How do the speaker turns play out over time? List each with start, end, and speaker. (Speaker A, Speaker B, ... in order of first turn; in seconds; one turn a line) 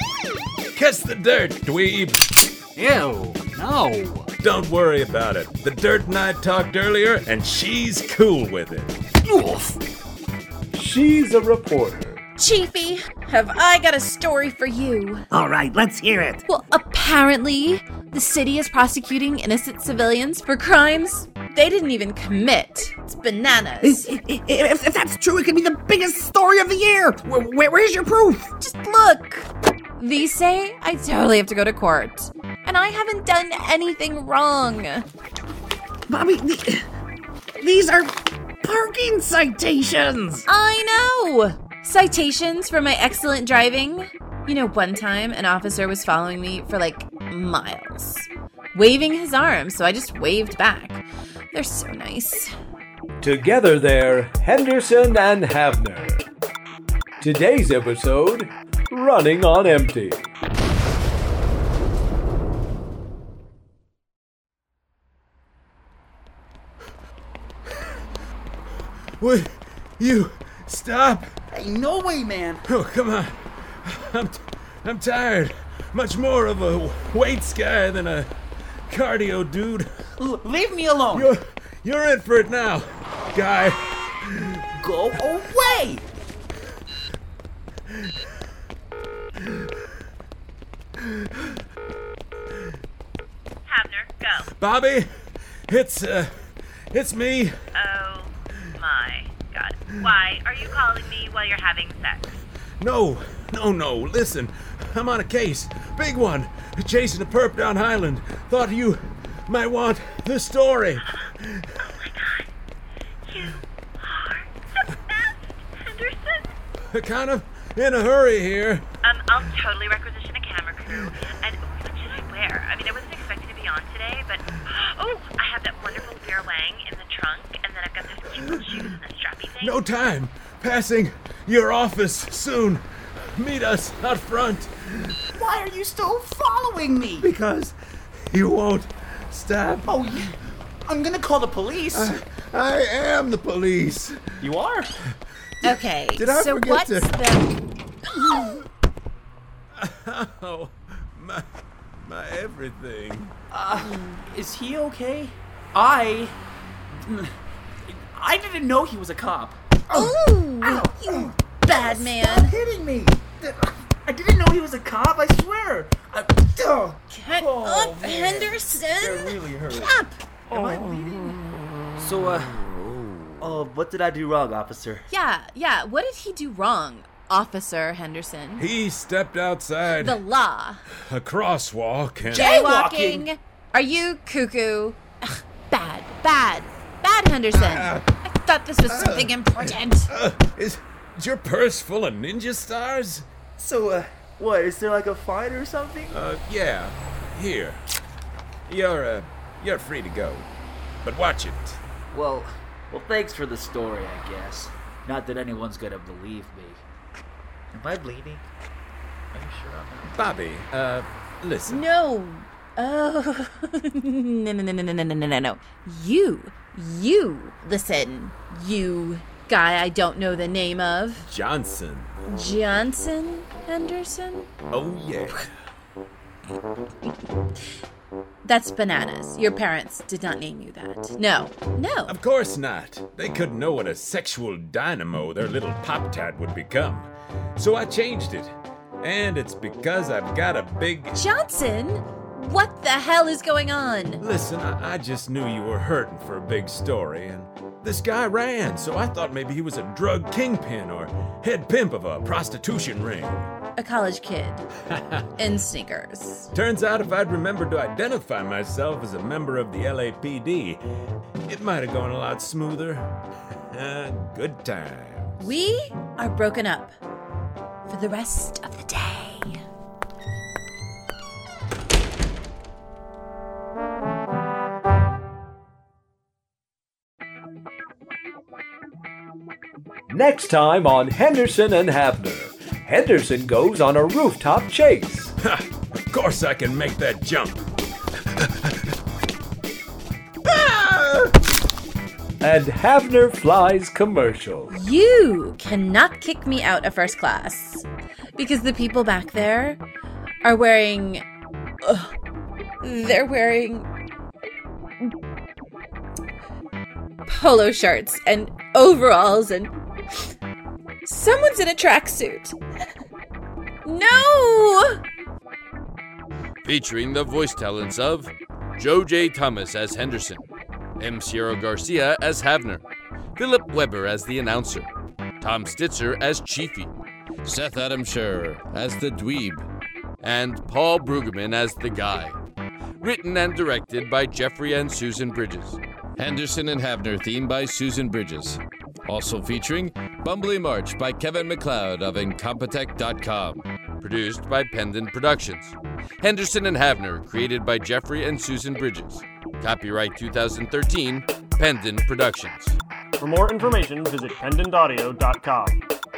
Speaker A: 0.7-2.2
Speaker A: 4.4-8.9
Speaker B: 10.7-12.2
Speaker C: 12.4-15.2
Speaker D: 15.3-16.4
Speaker C: 16.5-24.1
Speaker D: 23.8-28.5
Speaker C: 28.6-29.5
Speaker C: 30.0-35.1
Speaker D: 36.1-36.9
Speaker D: 37.6-40.4
Speaker C: 40.5-52.5
Speaker B: 53.2-56.3
Speaker B: 57.2-60.3
Speaker A: 69.2-71.3
Speaker E: 71.5-72.6
Speaker A: 72.7-78.3
Speaker A: 78.9-79.9
Speaker E: 80.2-81.3
Speaker A: 81.1-84.6
Speaker E: 84.8-86.1
Speaker F: 93.7-94.5
Speaker A: 94.5-95.1
Speaker A: 95.7-96.3
Speaker A: 96.9-97.5
Speaker F: 97.8-102.2
Speaker A: 102.8-111.2
Speaker F: 112.0-112.5
Speaker F: 113.3-114.5
Speaker F: 115.8-116.4
Speaker A: 116.9-118.8
Speaker F: 119.0-129.8
Speaker A: 129.6-134.7
Speaker E: 135.4-137.3
Speaker A: 137.2-137.8
Speaker A: 138.3-140.0
Speaker E: 139.9-140.3
Speaker E: 140.9-142.2
Speaker A: 141.9-144.5
Speaker E: 144.4-144.9
Speaker C: 145.6-147.5
Speaker A: 145.7-147.2
Speaker A: 149.8-151.4
Speaker A: 152.0-153.3
Speaker E: 153.5-156.4
Speaker E: 157.0-157.3
Speaker E: 157.9-169.9
Speaker C: 159.9-162.6
Speaker C: 167.1-170.2
Speaker E: 170.5-171.4
Speaker E: 172.0-172.6
Speaker E: 173.4-175.0
Speaker C: 175.1-178.7
Speaker A: 178.6-180.2
Speaker C: 180.0-180.8
Speaker A: 181.1-182.6
Speaker C: 182.3-190.1
Speaker E: 182.3-183.3
Speaker A: 187.5-188.1
Speaker A: 188.9-193.3
Speaker E: 193.6-196.2
Speaker A: 196.1-197.8
Speaker A: 198.7-200.5
Speaker A: 201.0-201.8
Speaker E: 202.1-206.8
Speaker E: 207.7-208.5
Speaker E: 209.3-210.1
Speaker A: 210.1-211.9
Speaker C: 211.7-221.3
Speaker A: 221.2-222.1
Speaker C: 222.3-224.5
Speaker A: 224.7-225.5
Speaker C: 228.4-232.2
Speaker A: 232.1-241.2
Speaker C: 241.2-244.2
Speaker A: 244.2-253.5
Speaker C: 253.8-254.7
Speaker C: 255.3-256.5
Speaker A: 256.5-260.8
Speaker A: 261.5-263.1
Speaker A: 263.7-265.5
Speaker C: 265.4-266.9
Speaker C: 267.9-269.6
Speaker B: 280.1-285.3
Speaker A: 285.4-287.7
Speaker A: 288.4-288.8
Speaker A: 290.4-291.4
Speaker B: 292.4-294.8
Speaker C: 294.7-297.9
Speaker C: 298.4-299.8
Speaker C: 300.4-301.2
Speaker C: 301.8-302.1
Speaker C: 302.8-303.9
Speaker C: 307.3-309.7
Speaker C: 311.0-312.6
Speaker C: 313.8-315.0
Speaker G: 316.6-320.5
Speaker G: 321.0-322.8
Speaker G: 323.4-324.9
Speaker G: 325.4-326.9
Speaker G: 327.4-329.7
Speaker G: 330.2-332.4
Speaker G: 333.0-352.8
Speaker H: 353.2-355.8